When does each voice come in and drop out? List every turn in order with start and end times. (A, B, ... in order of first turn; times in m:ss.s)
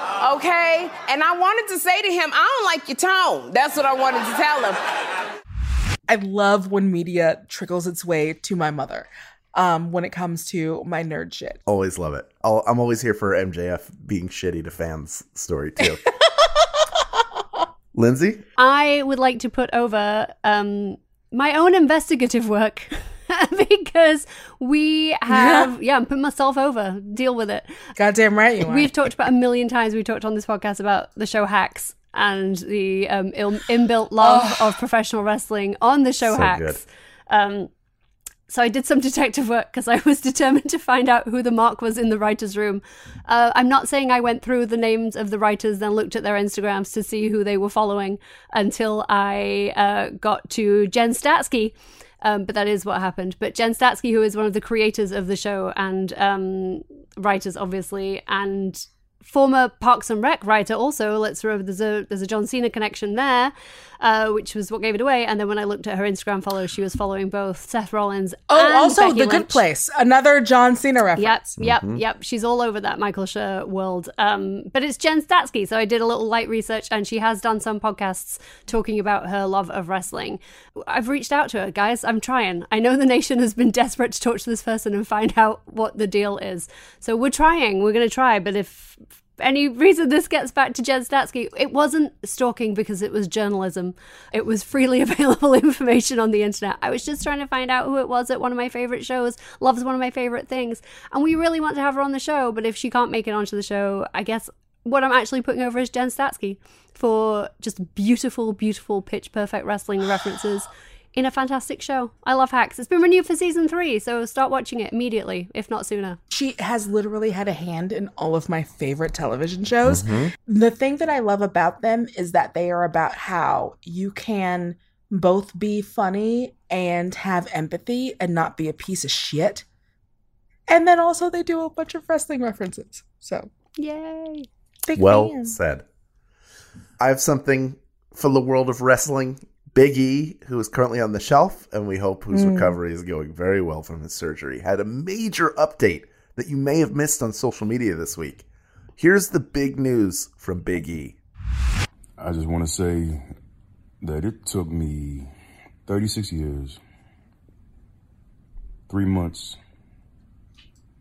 0:00.2-0:04.8 A
0:06.1-0:11.6 B
0:11.6-0:16.0 C
0:17.9-0:18.4 C
0:18.6-0:27.7 D
0:25.3-0:25.7 B
0:28.0-0:28.9 B
0:28.6-0:37.7 D
0:34.2-0:34.7 B
0:36.2-0:36.8 C
0:38.5-1:09.6 D
1:08.5-1:11.5 B
1:11.2-1:56.2 D
1:11.6-1:12.0 C
1:56.3-2:09.6 B
1:59.8-2:00.3 C
2:10.7-2:13.5 B
2:13.8-2:14.5 D
2:14.9-2:15.6 B
2:15.0-2:15.8 C
2:17.0-2:28.4 C
2:22.3-2:22.8 B
2:29.0-2:31.2 C
2:32.2-2:33.3 E
2:34.0-2:35.3 E
2:35.9-2:36.8 E
2:38.9-2:39.6 E